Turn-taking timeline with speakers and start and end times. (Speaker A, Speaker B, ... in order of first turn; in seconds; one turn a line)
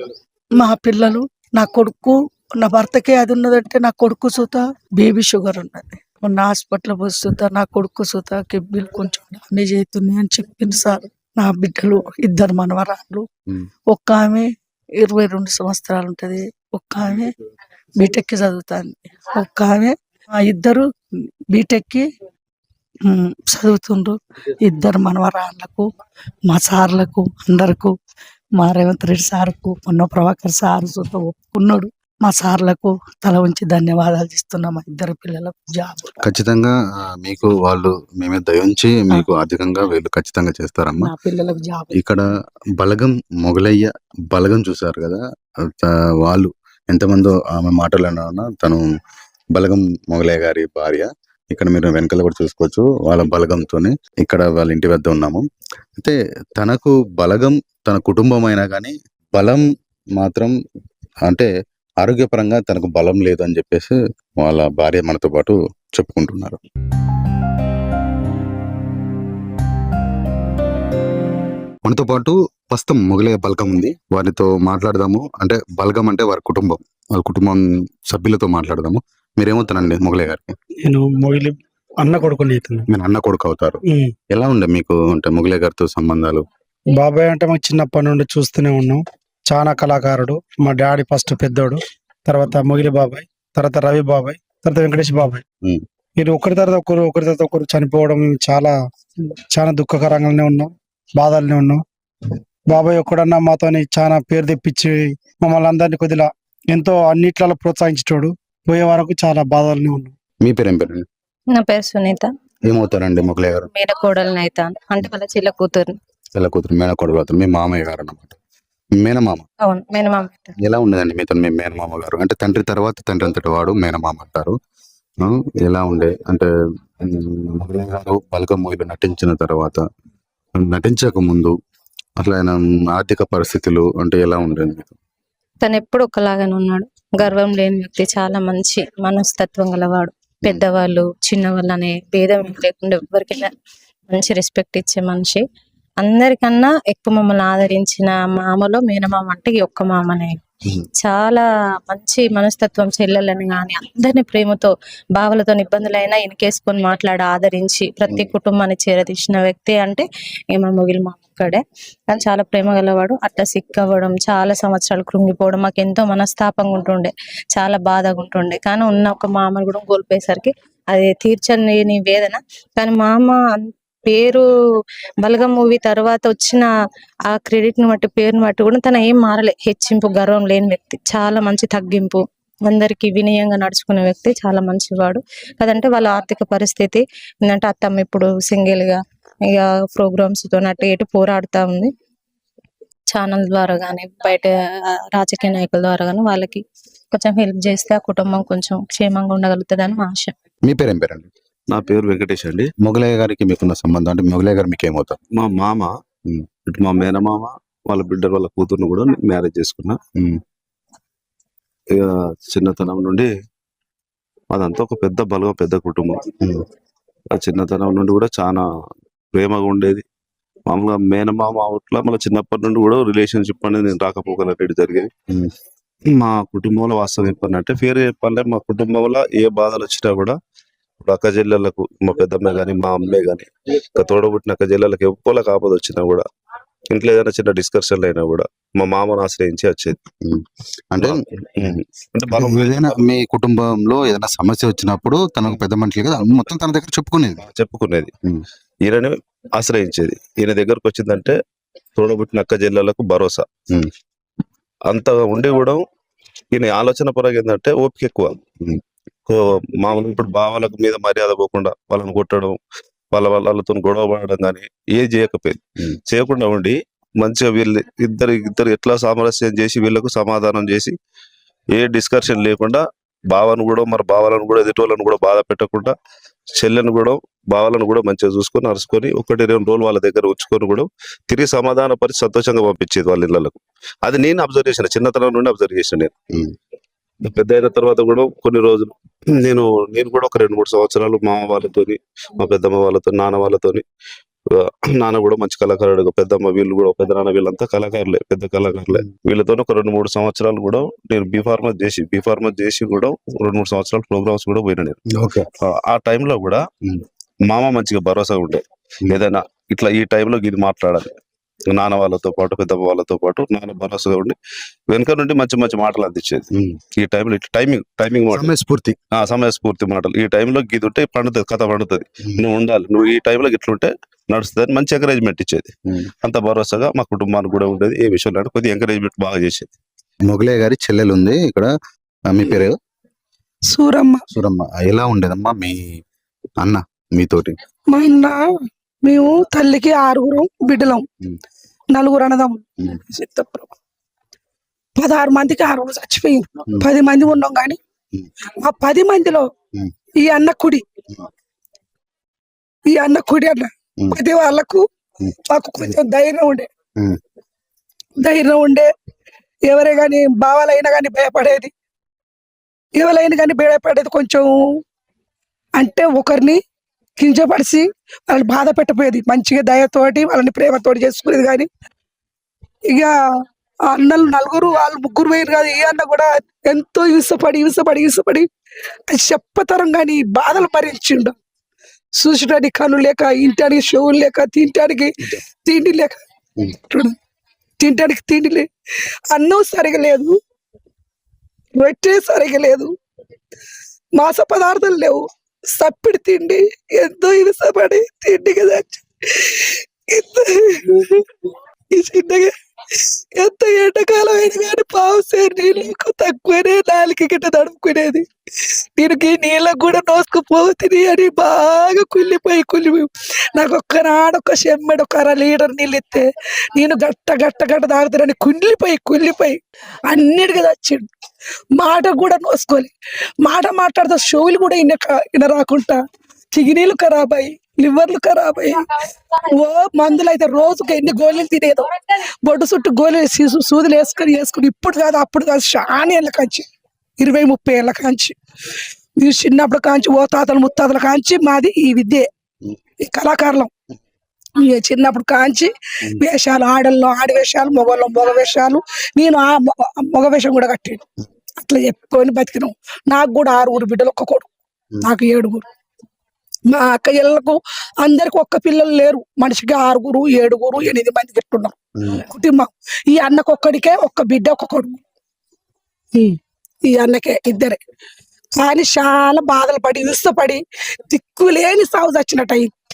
Speaker A: 0.6-13.2
Speaker A: 13.9-14.5
Speaker A: 15.0-17.3
Speaker A: 18.0-20.9
Speaker A: 21.5-22.1
Speaker A: 23.1-25.9
Speaker A: 26.5-27.9
Speaker A: 28.6-36.1
Speaker B: 36.2-41.1
Speaker A: 41.0-41.9
Speaker B: 41.9-42.2
Speaker B: 42.8-45.2
Speaker B: 45.7-48.8
Speaker B: 49.5-55.4
Speaker B: 56.0-59.6
Speaker B: 60.2-60.5
Speaker B: 62.0-66.6
Speaker B: 71.8-80.5
Speaker C: 80.8-82.8
Speaker B: 82.9-83.8
Speaker C: 83.9-84.1
Speaker B: 84.3-86.4
Speaker C: 86.9-95.4
Speaker C: 96.2-98.7
Speaker C: 99.5-101.8
Speaker C: 102.7-110.1
Speaker B: 110.4-111.0
Speaker D: 111.5-112.3
Speaker B: 112.7-113.7
Speaker D: 113.7-115.9
Speaker B: 116.3-118.3
Speaker B: 119.0-119.5
Speaker D: 119.6-120.5
Speaker B: 120.6-124.5
Speaker B: 125.2-126.5
Speaker B: 127.0-129.8
Speaker B: 130.6-131.5
Speaker B: 132.2-134.9
Speaker D: 135.6-143.5
Speaker D: 144.1-145.4
Speaker D: 146.0-150.3
Speaker D: 151.0-173.5
Speaker D: 174.1-174.4
Speaker D: 175.2-176.7
Speaker D: 177.3-189.0
Speaker D: 189.5-191.9
Speaker D: 193.1-194.5
Speaker D: 195.2-196.6
Speaker D: 197.1-200.3
Speaker B: 200.7-201.3
Speaker E: 201.7-202.7
Speaker B: 202.8-205.2
Speaker E: 205.3-205.9
Speaker E: 206.7-210.0
Speaker E: 211.9-213.3
Speaker E: 214.5-216.2
Speaker E: 217.3-218.6
Speaker E: 219.3-220.0
Speaker E: 220.7-225.1
Speaker E: 226.1-230.3
Speaker E: 231.0-236.2
Speaker E: 236.9-240.0
Speaker B: 240.2-241.8
Speaker E: 241.0-243.0
Speaker B: 242.3-247.4
Speaker E: 247.4-248.1
Speaker E: 248.8-251.3
Speaker E: 252.0-253.4
Speaker E: 254.9-255.8
Speaker E: 256.5-258.3
Speaker E: 259.2-262.6
Speaker E: 263.1-270.9
Speaker E: 271.7-275.9
Speaker E: 276.6-286.1
Speaker E: 287.2-293.8
Speaker E: 294.5-305.0
Speaker B: 305.1-305.5
Speaker E: 305.6-306.6
Speaker E: 307.5-311.1
Speaker E: 311.7-314.4
Speaker E: 314.9-316.4
Speaker B: 316.5-316.8
Speaker E: 317.0-318.5
Speaker B: 318.3-319.0
Speaker E: 319.1-325.7
Speaker E: 326.2-329.7
Speaker B: 330.3-331.7
Speaker B: 332.3-332.7
Speaker F: 333.7-334.2
Speaker B: 334.3-335.8
Speaker B: 336.6-337.6
Speaker F: 337.9-338.3
Speaker F: 339.0-341.0
Speaker F: 341.9-343.7
Speaker F: 345.0-347.8
Speaker F: 348.6-349.4
Speaker F: 350.2-350.8
Speaker F: 352.9-354.8
Speaker F: 355.5-356.7
Speaker F: 358.2-358.9
Speaker F: 359.6-361.7
Speaker F: 362.9-364.6
Speaker F: 365.8-366.6
Speaker F: 367.2-371.7
Speaker F: 373.9-378.5
Speaker F: 379.1-381.4
Speaker F: 382.1-385.1
Speaker F: 385.6-386.2
Speaker F: 386.8-387.1
Speaker F: 387.8-388.7
Speaker F: 389.3-390.4
Speaker F: 391.8-392.9
Speaker F: 394.1-395.2
Speaker F: 395.7-396.6
Speaker F: 397.2-400.8
Speaker A: 402.0-402.3
Speaker F: 402.0-402.5
Speaker A: 403.4-408.2
Speaker F: 404.1-405.4
Speaker F: 408.6-421.1
Speaker A: 409.2-411.4
Speaker F: 421.8-426.0
Speaker F: 426.5-428.9
Speaker F: 429.4-436.6
Speaker F: 437.2-438.4
Speaker F: 439.2-442.3
Speaker F: 443.0-443.7
Speaker F: 444.6-451.0
Speaker F: 451.6-454.5
Speaker F: 455.0-455.6
Speaker F: 456.7-465.0
Speaker F: 466.1-467.8
Speaker F: 468.6-472.7